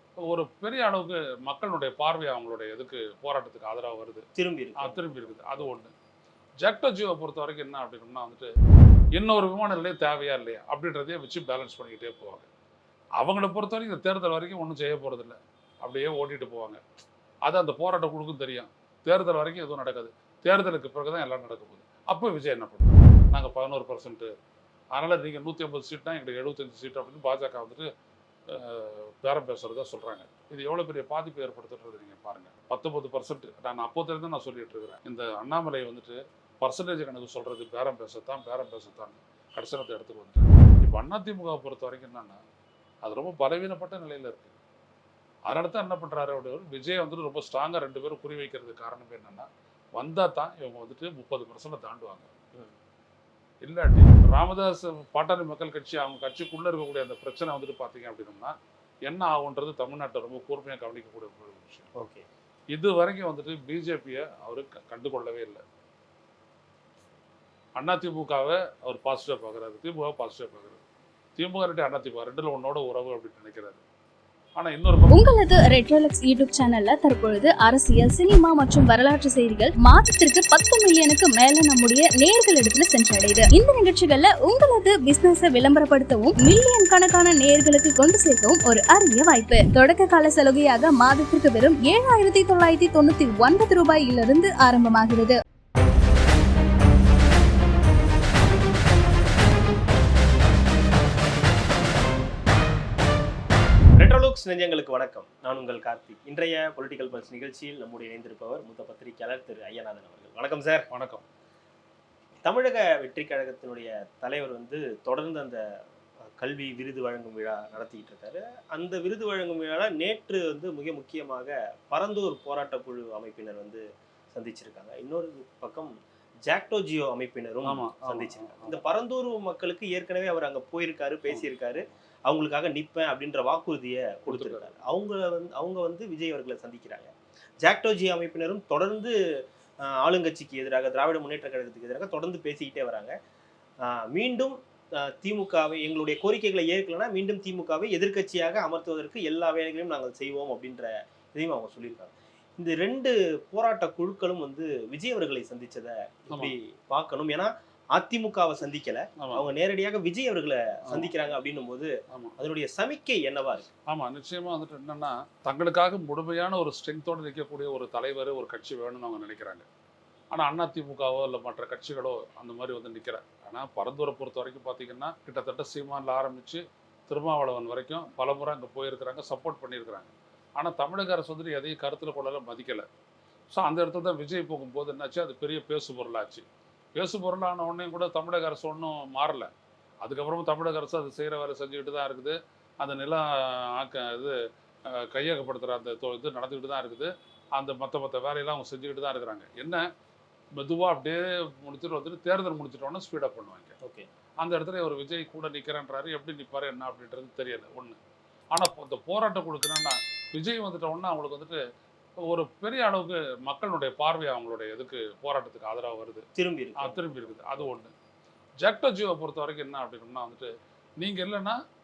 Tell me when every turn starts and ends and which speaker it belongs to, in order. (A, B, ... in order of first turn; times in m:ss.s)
0:00.2-0:05.9 A
0:04.4-0:05.8 B
0:06.6-0:08.5 A
0:09.1-0:12.5 A
0:13.2-0:16.8 A
0:17.4-0:24.3 A
0:24.9-0:27.9 A
0:28.5-0:42.4 A
0:43.0-0:44.6 A
0:45.5-0:52.3 A
0:53.6-0:58.5 A
0:59.1-1:01.9 A
1:02.0-1:02.2 B
1:02.7-1:05.6 A
1:07.8-1:10.8 A
1:11.4-1:13.8 A
1:14.6-1:15.2 A
1:15.1-1:35.4 C
1:44.0-1:50.9 B
1:50.9-1:51.2 A
1:52.4-1:55.6 B
1:56.4-2:05.9 B
2:06.4-2:19.1 B
2:07.6-2:08.8 A
2:11.3-2:11.9 A
2:14.3-2:14.7 A
2:19.8-2:23.1 B
2:23.8-2:43.7 B
2:39.2-2:39.4 A
2:40.9-2:41.1 A
2:42.1-2:42.4 A
2:43.9-2:49.6 A
2:50.3-3:02.8 A
3:03.5-3:09.5 A
3:10.0-3:14.3 A
3:14.9-3:19.8 A
3:20.6-3:23.8 A
3:23.8-3:24.1 B
3:24.4-3:28.0 A
3:28.5-3:31.6 A
3:32.2-3:37.9 A
3:36.4-3:37.8 B
3:38.6-3:41.6 A